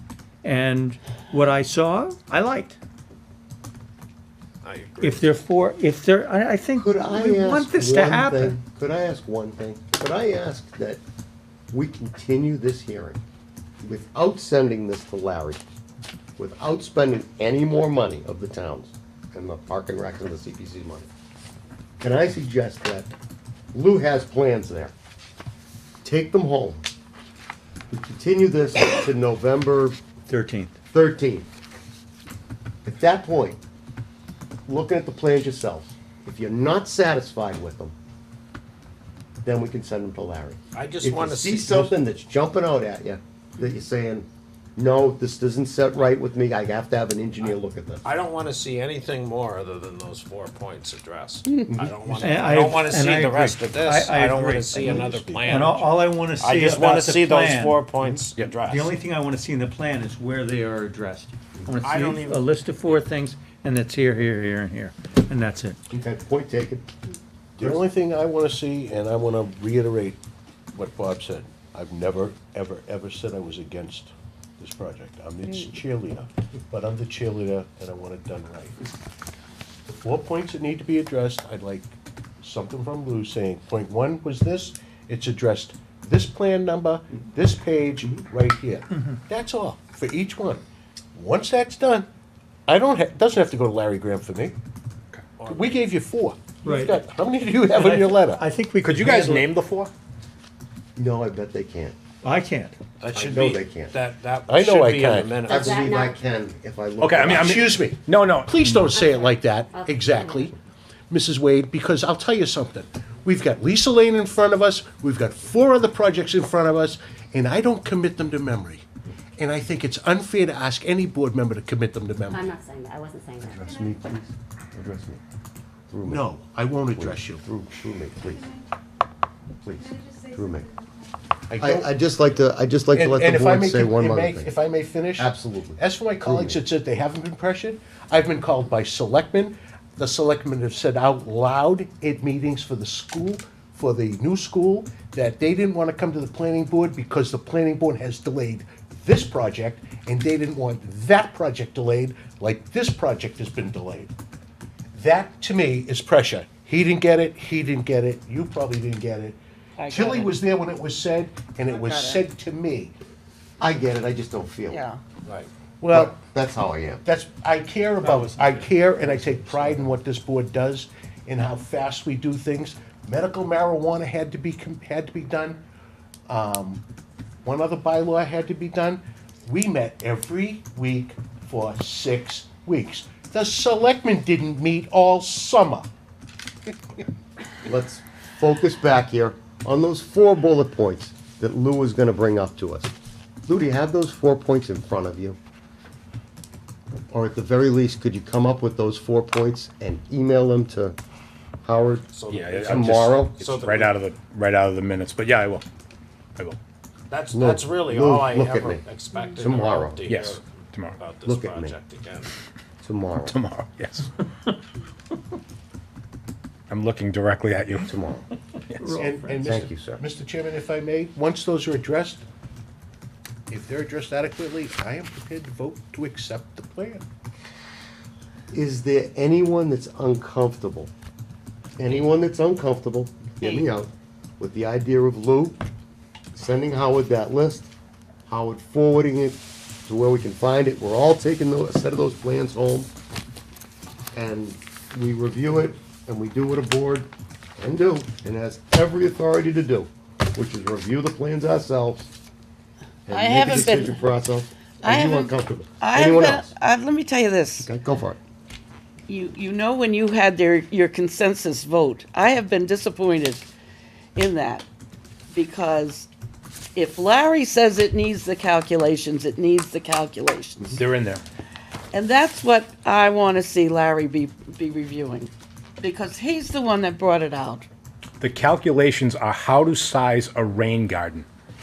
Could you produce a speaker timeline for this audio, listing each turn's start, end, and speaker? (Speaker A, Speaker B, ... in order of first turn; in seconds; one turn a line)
Speaker A: 0.4-2.8
Speaker B: 4.6-5.3
Speaker A: 5.0-8.6
Speaker C: 6.8-11.0
Speaker C: 11.7-13.2
Speaker C: 13.8-15.6
Speaker C: 16.4-21.1
Speaker C: 22.0-23.1
Speaker C: 23.7-24.9
Speaker C: 26.0-26.8
Speaker C: 27.9-30.0
Speaker A: 30.3-30.7
Speaker C: 30.9-31.5
Speaker C: 32.8-33.6
Speaker C: 34.7-37.9
Speaker C: 39.4-48.0
Speaker B: 40.7-42.0
Speaker B: 48.0-58.9
Speaker C: 51.7-52.0
Speaker A: 52.2-57.9
Speaker D: 54.8-55.5
Speaker A: 58.6-65.8
Speaker B: 61.8-62.9
Speaker C: 65.9-66.9
Speaker D: 67.6-70.2
Speaker D: 70.7-78.8
Speaker D: 80.0-90.6
Speaker A: 88.9-89.2
Speaker D: 91.1-92.1
Speaker D: 92.7-94.6
Speaker B: 95.4-95.8
Speaker D: 95.5-98.4
Speaker A: 96.6-97.0
Speaker A: 97.7-99.5
Speaker E: 98.8-99.9
Speaker C: 101.0-102.0
Speaker A: 102.2-102.8
Speaker B: 103.0-105.5
Speaker C: 103.1-104.0
Speaker D: 104.5-105.5
Speaker F: 105.5-106.2
Speaker C: 105.5-107.7
Speaker E: 107.0-108.9
Speaker D: 107.3-110.5
Speaker F: 108.9-110.5
Speaker D: 111.1-118.8
Speaker D: 119.4-122.5
Speaker F: 122.3-123.7
Speaker C: 123.4-125.2
Speaker C: 125.9-126.3
Speaker D: 126.0-127.4
Speaker C: 126.9-128.6
Speaker C: 129.6-130.7
Speaker D: 131.5-131.9
Speaker C: 131.6-134.5
Speaker D: 132.9-154.1
Speaker C: 135.2-136.6
Speaker D: 154.9-162.9
Speaker G: 159.8-160.3
Speaker G: 161.7-162.2
Speaker C: 163.6-164.8
Speaker G: 164.7-165.0
Speaker D: 165.8-166.2
Speaker C: 165.9-167.0
Speaker D: 167.0-175.6
Speaker A: 168.0-168.7
Speaker D: 176.3-176.8
Speaker D: 177.4-185.9
Speaker C: 187.6-192.9
Speaker C: 193.4-195.4
Speaker C: 197.1-200.9
Speaker C: 201.6-203.4
Speaker B: 202.1-203.9
Speaker E: 202.3-205.6
Speaker B: 207.1-212.3
Speaker C: 207.3-210.0
Speaker E: 210.0-211.0
Speaker C: 211.2-211.8
Speaker C: 212.8-213.3
Speaker E: 213.3-214.1
Speaker E: 216.7-217.9
Speaker C: 217.8-218.2
Speaker A: 218.8-219.6
Speaker D: 218.9-222.2
Speaker C: 219.4-220.0
Speaker D: 223.5-227.1
Speaker C: 228.5-230.9
Speaker C: 231.8-235.6
Speaker C: 236.3-237.7
Speaker C: 238.3-242.9
Speaker C: 244.1-252.1
Speaker C: 253.1-256.5
Speaker G: 253.1-254.0
Speaker G: 254.8-257.7
Speaker C: 257.6-258.2
Speaker G: 259.1-263.4
Speaker G: 264.1-264.6
Speaker G: 265.3-266.1
Speaker G: 266.8-270.8
Speaker E: 270.7-271.2
Speaker G: 271.9-277.7
Speaker E: 278.2-281.3